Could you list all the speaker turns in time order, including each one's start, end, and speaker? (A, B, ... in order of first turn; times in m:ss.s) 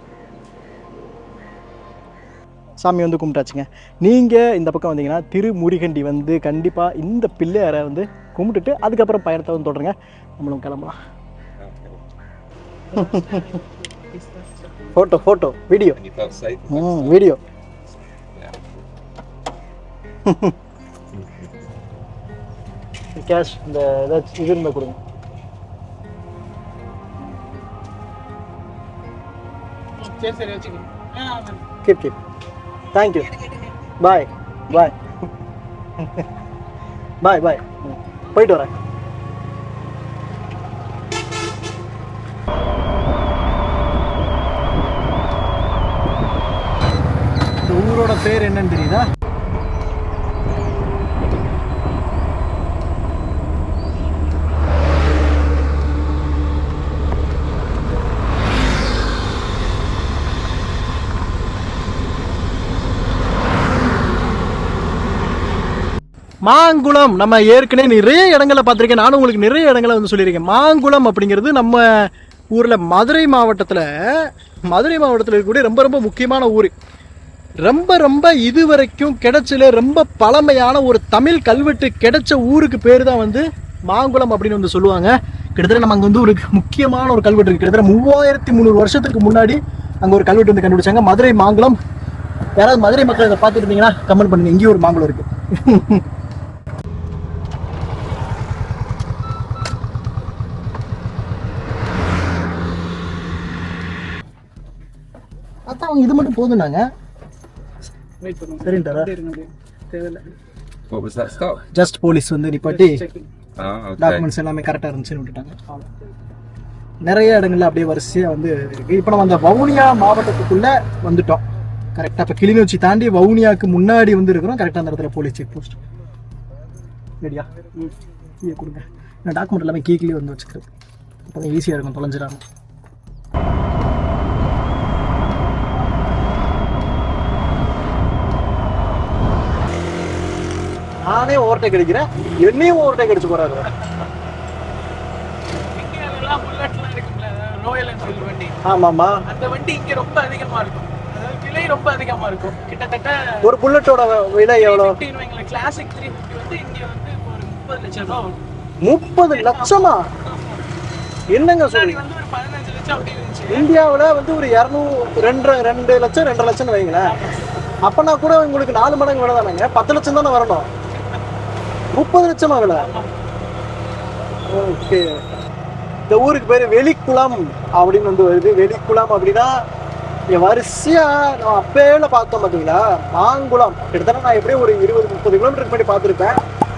0:02.8-0:11.0 A
0:11.6-0:12.0 B
0:12.9-0:14.7 C
0:12.9-0:13.4 A
0:14.9-0:16.0 A
0:15.9-0:17.2 B
0:16.7-0:17.4 A
0:18.3-0:18.9 B
0:20.2-0:20.5 A
0:21.1-0:21.5 B
0:23.1-0:25.0 A
0:30.0-0:31.6 C
0:31.8-0:32.2 A
0:32.9-0:33.3 A
0:34.0-0:35.0 A
0:37.2-0:37.8 A
0:38.3-0:38.7 A
0:47.6-0:49.1 A
1:06.4-1:16.7 A
1:17.6-1:31.8 A
1:32.6-1:36.0 A
1:45.7-1:46.8 A
1:48.2-1:50.3 C
1:48.6-1:49.1 A
1:50.9-1:51.6 B
1:51.7-1:53.0 A
1:52.7-1:53.2 C
1:53.6-1:54.3 B
1:54.0-1:55.8 A
1:57.0-2:01.4 A
2:01.9-2:05.8 A
2:07.2-2:07.7 A
2:08.4-2:10.7 A
2:11.2-2:12.4 A
2:21.0-2:23.7 A
2:25.7-2:28.6 C
2:28.6-2:29.2 A
2:29.3-2:33.3 C
2:33.4-2:35.0 A
2:34.6-2:38.4 C
2:38.8-2:40.0 A
2:39.3-2:40.7 C
2:41.3-2:42.0 A
2:41.5-2:43.6 C
2:43.5-2:47.1 A
2:47.0-2:47.6 C
2:47.8-2:50.7 A
2:50.9-2:51.2 C
2:51.9-2:52.9 A
2:52.8-2:53.1 C
2:54.5-2:55.2 A
2:56.1-2:59.5 A
3:00.3-3:06.4 A